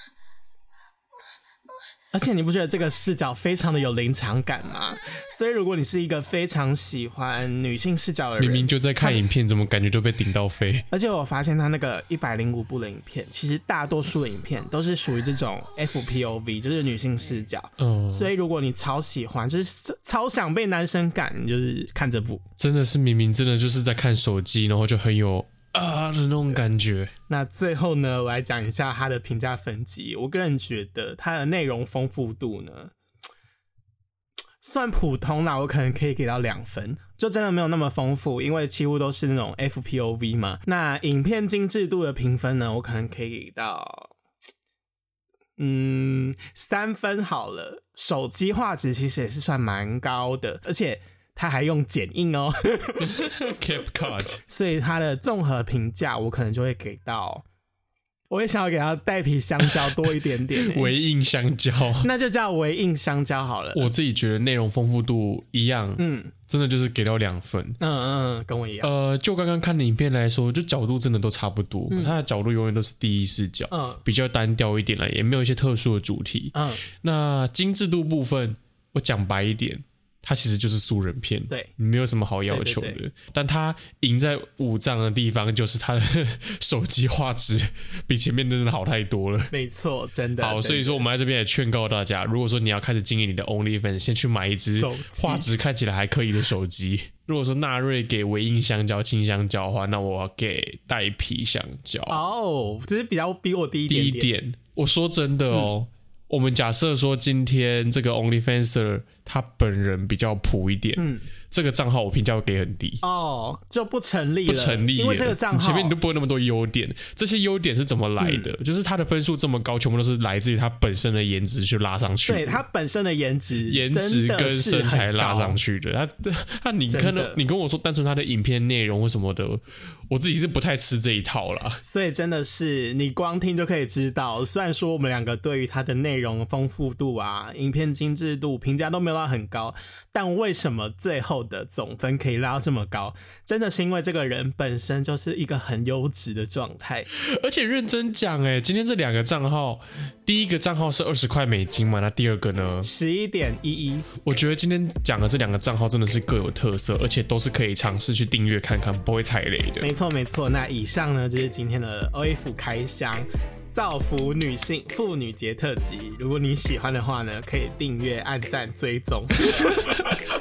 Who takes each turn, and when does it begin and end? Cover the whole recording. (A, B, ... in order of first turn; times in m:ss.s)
0:02.1-0:09.2 A
0:08.4-0:10.9 B
0:10.9-0:22.4 A
0:17.8-0:18.3 B
0:22.6-0:27.1 B
0:27.3-0:32.9 A
0:34.6-0:44.1 A
0:45.6-0:53.0 A
0:53.0-0:54.4 B
0:54.5-0:57.4 A
0:58.3-1:00.9 A
0:59.6-1:00.0 B
1:00.5-1:02.1 B
1:02.0-1:03.9 A
1:03.8-1:07.8 B
1:06.0-1:06.3 A
1:07.8-1:08.9 A
1:08.8-1:29.5 B
1:11.9-1:12.2 A
1:13.7-1:14.0 A
1:16.5-1:16.8 A
1:22.5-1:23.0 A
1:29.5-1:31.0 A
1:30.4-1:42.2 B
1:34.8-1:35.5 A
1:42.1-1:44.3 A
1:43.9-1:53.0 B
1:51.0-1:51.3 A
1:53.0-1:56.0 A
1:54.5-2:02.6 B
1:58.2-1:58.5 A
2:02.3-2:05.6 A
2:03.7-2:11.8 B
2:06.9-2:07.4 A
2:11.8-2:27.1 A
2:27.1-2:32.9 B
2:32.8-2:34.1 A
2:34.2-2:39.9 B
2:39.8-2:49.5 A
2:49.5-2:50.2 B